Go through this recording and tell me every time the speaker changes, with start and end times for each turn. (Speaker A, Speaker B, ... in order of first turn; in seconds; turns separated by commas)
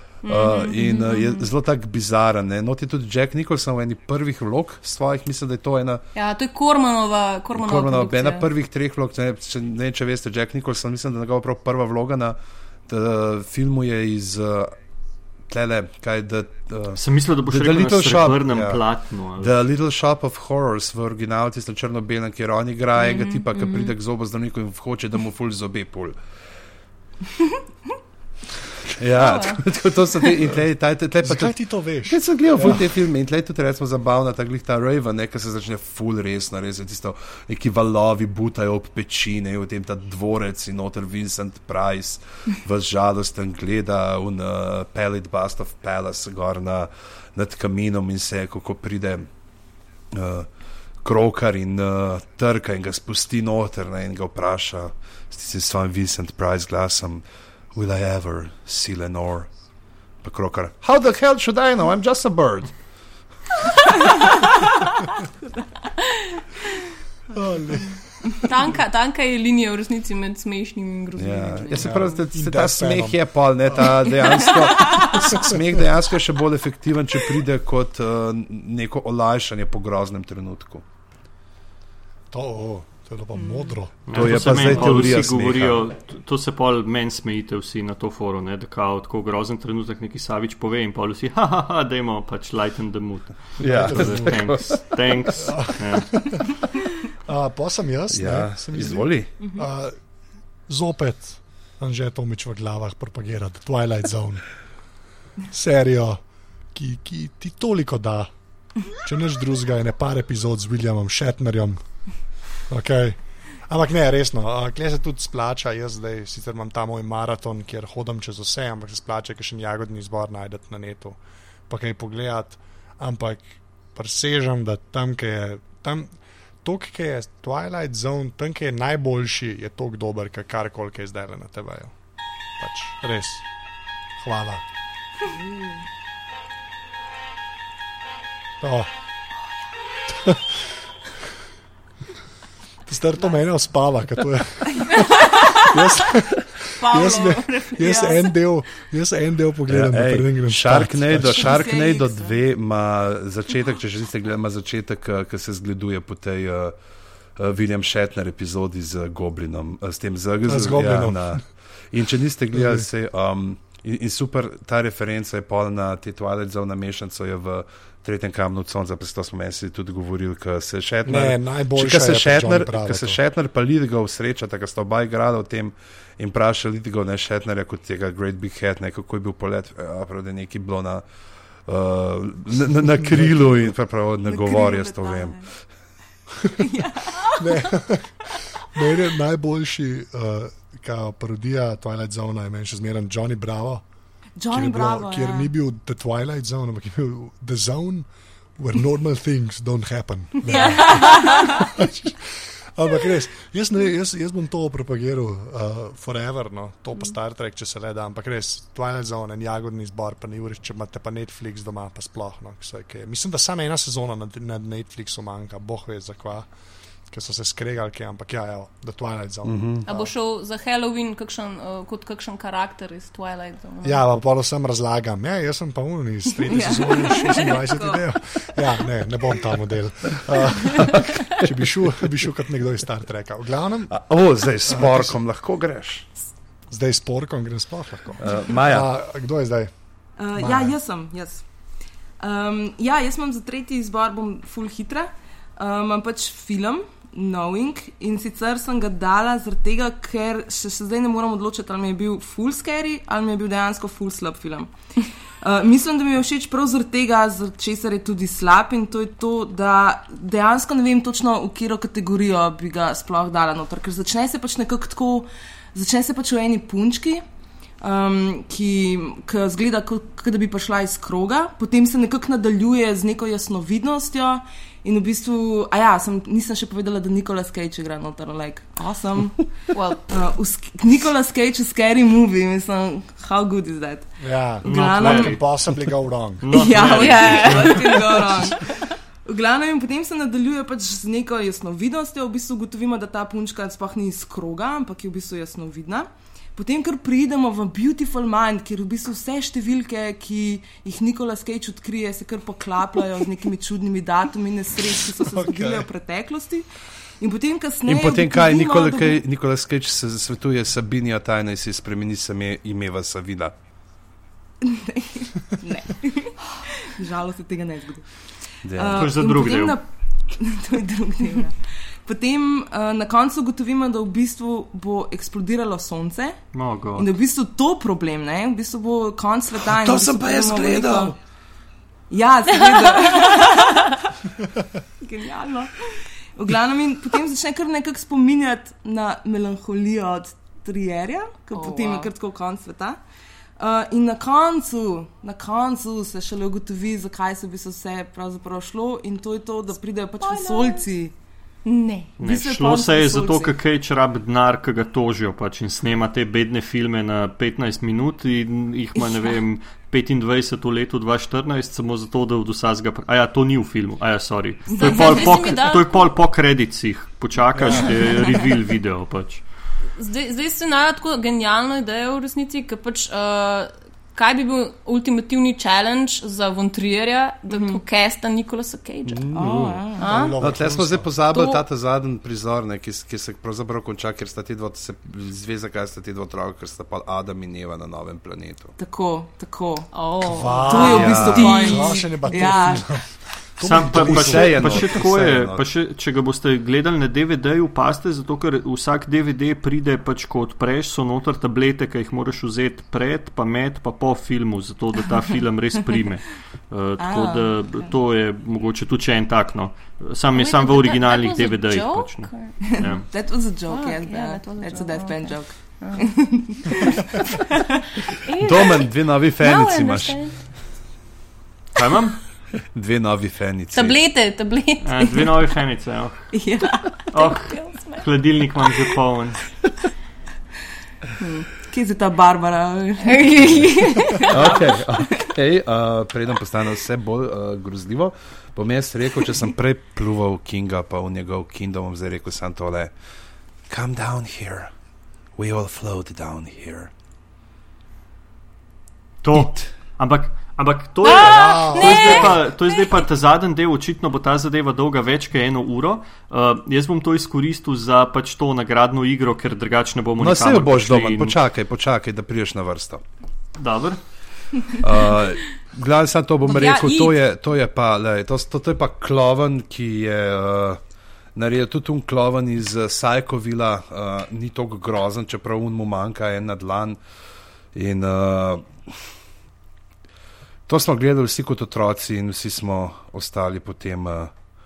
Speaker A: 0.2-1.5, Speaker B: 0.3-6.0, Speaker A: 6.2-8.5, Speaker B: 7.5-12.4, Speaker B: 12.9-14.8, Speaker B: 15.5-18.8, Speaker C: 17.0-19.5, Speaker B: 19.4-26.2, Speaker A: 23.0-23.9, Speaker B: 28.9-49.3, Speaker A: 29.2-29.6, Speaker D: 31.2-32.9, Speaker B: 50.1-50.5, Speaker B: 51.0-59.5, Speaker B: 60.2-62.7, Speaker D: 67.3-68.5, Speaker A: 68.4-72.0, Speaker B: 71.2-80.8, Speaker D: 71.8-75.6, Speaker D: 82.3-84.9, Speaker C: 84.1-96.5, Speaker B: 84.1-85.9, Speaker D: 93.6-94.6, Speaker B: 93.6-94.8, Speaker D: 95.3-96.6, Speaker D: 97.2-100.0, Speaker B: 98.1-99.3, Speaker D: 100.7-104.5, Speaker D: 105.5-106.2, Speaker D: 106.7-108.3, Speaker D: 108.9-111.8, Speaker D: 112.7-131.9, Speaker D: 132.6-133.4, Speaker D: 134.2-134.6, Speaker D: 138.6-138.9, Speaker D: 140.1-140.8, Speaker D: 142.9-151.5, Speaker A: 145.2-145.6, Speaker A: 146.8-148.3, Speaker B: 149.7-156.8, Speaker E: 151.4-152.4, Speaker B: 157.4-181.0, Speaker D: 160.5-161.4, Speaker D: 162.6-162.8, Speaker D: 171.1-173.2, Speaker B: 181.7-185.5, Speaker D: 183.0-183.7, Speaker E: 184.3-185.4, Speaker E: 186.6-187.4, Speaker D: 187.2-193.8, Speaker E: 194.4-195.5, Speaker D: 194.5-198.1, Speaker D: 198.6-216.5, Speaker E: 200.5-201.4, Speaker A: 200.8-201.5, Speaker D: 217.1-220.1, Speaker B: 219.4-219.8, Speaker A: 219.8-224.0, Speaker D: 223.8-234.0, Speaker E: 226.5-228.1, Speaker B: 230.8-231.9, Speaker B: 233.9-236.1, Speaker D: 234.6-235.2, Speaker D: 236.7-239.7, Speaker B: 238.2-238.9, Speaker E: 240.2-241.5, Speaker D: 240.4-240.8, Speaker E: 242.2-267.2, Speaker E: 267.8-279.5, Speaker A: 279.7-280.1, Speaker E: 280.1-285.4, Speaker D: 284.2-287.1, Speaker C: 284.6-285.9, Speaker C: 286.4-288.3, Speaker E: 286.5-306.7, Speaker A: 286.8-288.1, Speaker D: 305.2-305.9, Speaker E: 307.2-309.2, Speaker B: 307.9-313.5, Speaker E: 314.6-318.1, Speaker E: 318.6-326.4, Speaker B: 318.6-319.1, Speaker C: 318.9-319.8, Speaker C: 326.5-327.1, Speaker E: 327.0-331.2, Speaker B: 329.7-331.1, Speaker E: 332.1-334.1, Speaker A: 332.7-333.4, Speaker E: 335.0-343.0, Speaker A: 341.5-342.1, Speaker E: 343.6-351.1, Speaker A: 350.2-350.9, Speaker A: 351.7-352.0, Speaker E: 351.7-353.6, Speaker C: 352.2-369.4, Speaker E: 364.7-365.4, Speaker A: 364.8-366.1, Speaker D: 367.5-368.1, Speaker A: 370.0-380.4, Speaker E: 377.5-377.8, Speaker B: 379.1-379.9, Speaker E: 379.3-380.1, Speaker D: 380.0-381.2, Speaker B: 380.4-388.7, Speaker A: 381.3-381.6, Speaker E: 388.8-389.9, Speaker A: 389.9-392.5, Speaker D: 390.2-394.9, Speaker E: 390.5-392.9, Speaker B: 390.8-391.6, Speaker C: 393.6-413.1, Speaker B: 393.8-395.6, Speaker E: 407.0-407.9, Speaker A: 410.3-412.8, Speaker E: 412.8-417.2, Speaker A: 413.7-417.0, Speaker A: 418.1-418.9, Speaker B: 418.4-420.2, Speaker A: 419.4-420.4, Speaker C: 421.8-422.2, Speaker B: 422.7-424.0, Speaker A: 423.7-425.4, Speaker C: 424.8-426.3, Speaker E: 426.3-427.1, Speaker A: 427.1-428.1, Speaker C: 427.1-429.4, Speaker A: 431.2-431.5, Speaker E: 431.7-435.2, Speaker A: 433.0-434.6, Speaker B: 434.3-442.9, Speaker B: 443.7-444.7, Speaker B: 445.4-446.9, Speaker C: 449.2-461.4, Speaker A: 451.0-453.0, Speaker D: 451.1-452.3, Speaker B: 460.2-463.0, Speaker C: 463.6-464.0, Speaker B: 464.8-470.8, Speaker A: 466.4-467.2, Speaker B: 471.4-477.0, Speaker B: 477.7-478.7, Speaker B: 480.7-484.3